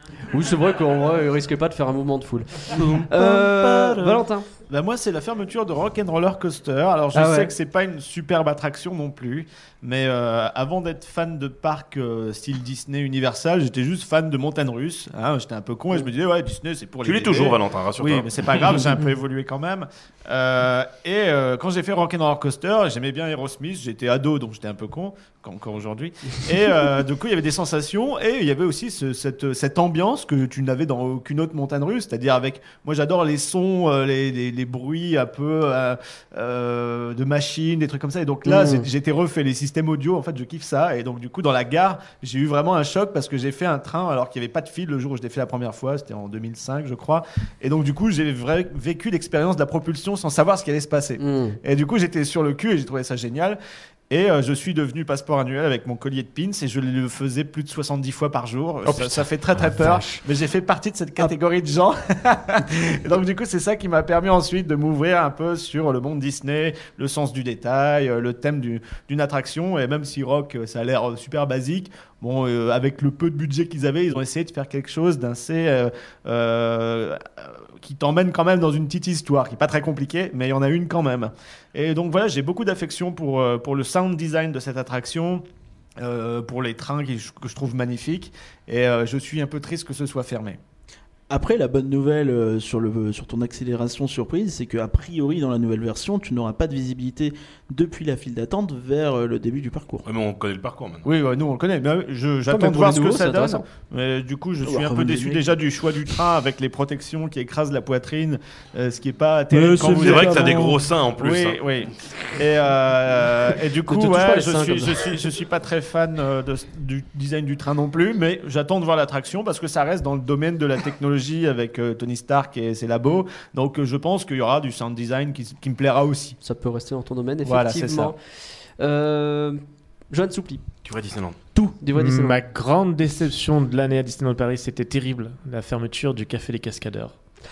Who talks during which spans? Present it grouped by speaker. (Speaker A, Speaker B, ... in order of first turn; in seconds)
Speaker A: 0.3-4.5, 7.1-7.5, 38.5-38.9, 51.2-51.6, 102.5-103.7, 113.8-115.0, 126.4-128.2, 128.8-130.6, 131.8-132.4
Speaker B: 2.8-4.1, 4.7-85.4, 86.0-90.6, 101.0-110.6, 111.2-126.4, 127.4-128.2
Speaker C: 17.0-18.9, 100.1-101.1, 109.9-111.6, 130.8-131.4
Speaker D: 91.3-100.1, 104.6-105.6, 109.5-110.8
Speaker E: 131.9-137.1